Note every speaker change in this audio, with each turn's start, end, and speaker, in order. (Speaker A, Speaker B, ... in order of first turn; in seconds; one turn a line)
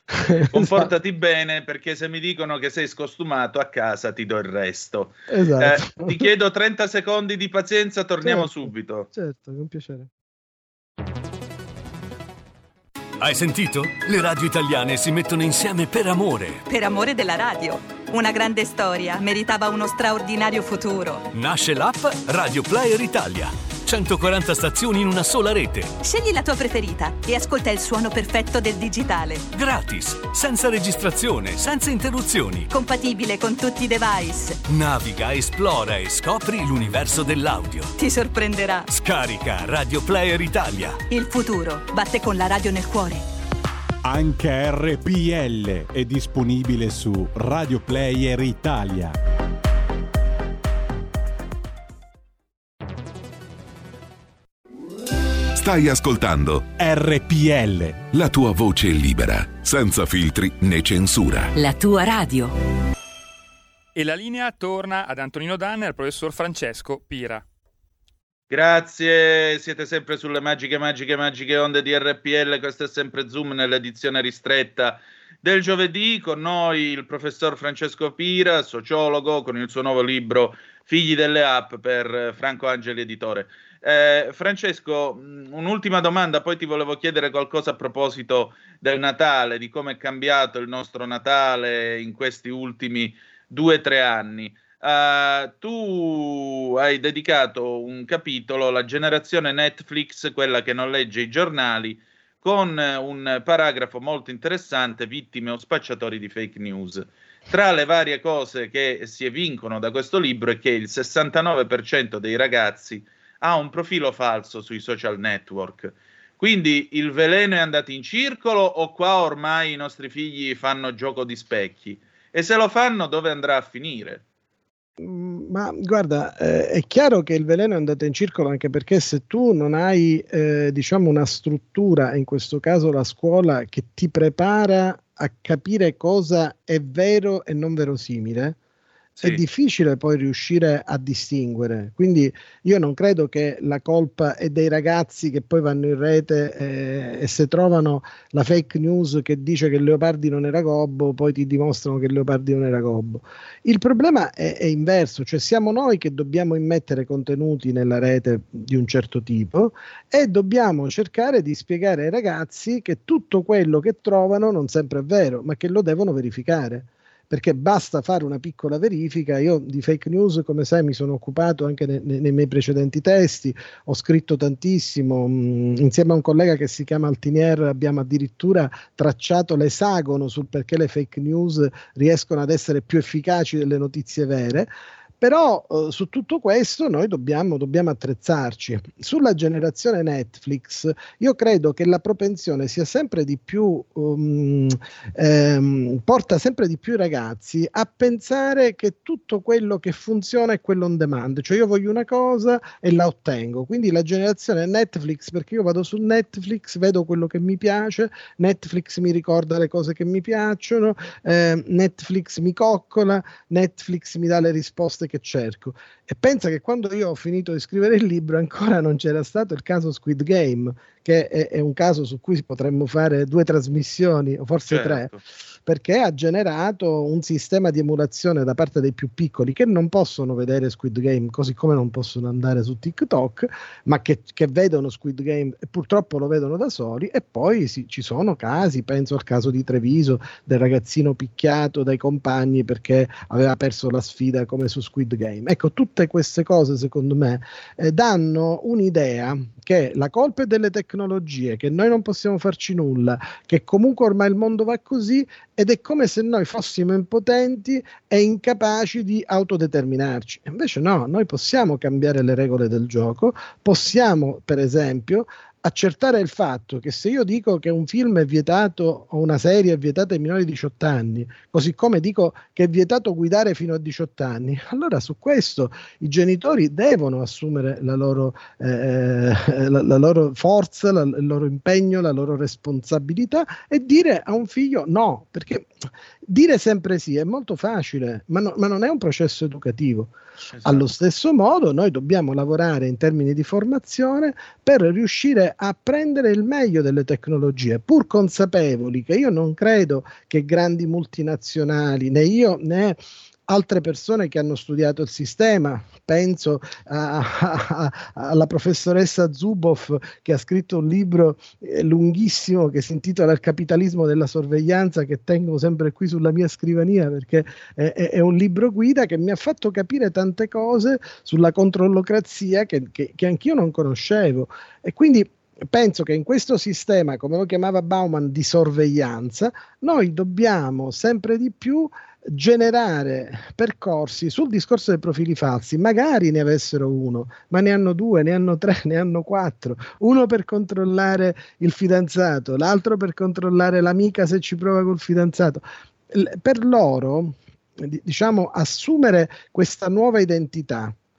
Speaker A: 0.2-0.9
Speaker B: 0.5-9.1
Speaker A: 5.3-6.3
Speaker A: 8.2-10.1
Speaker C: 13.2-16.6
Speaker D: 16.7-21.2
Speaker C: 21.3-26.0
Speaker D: 26.0-29.4
Speaker C: 29.5-32.7
Speaker D: 32.7-34.6
Speaker C: 34.6-37.9
Speaker D: 38.0-38.9
Speaker C: 38.9-41.0
Speaker D: 41.1-43.2
Speaker E: 44.0-49.1
Speaker F: 55.5-56.7
Speaker E: 56.8-58.1
Speaker F: 58.1-61.5
Speaker G: 63.9-67.4
Speaker B: 68.5-124.2
Speaker A: 125.0-138.6
Speaker A: 139.2-184.7
Speaker A: 185.2-225.1
Speaker B: 224.7-225.2
Speaker A: 225.7-285.7
Speaker A: 286.2-290.1
Speaker B: 290.5-290.9
Speaker A: 290.6-350.9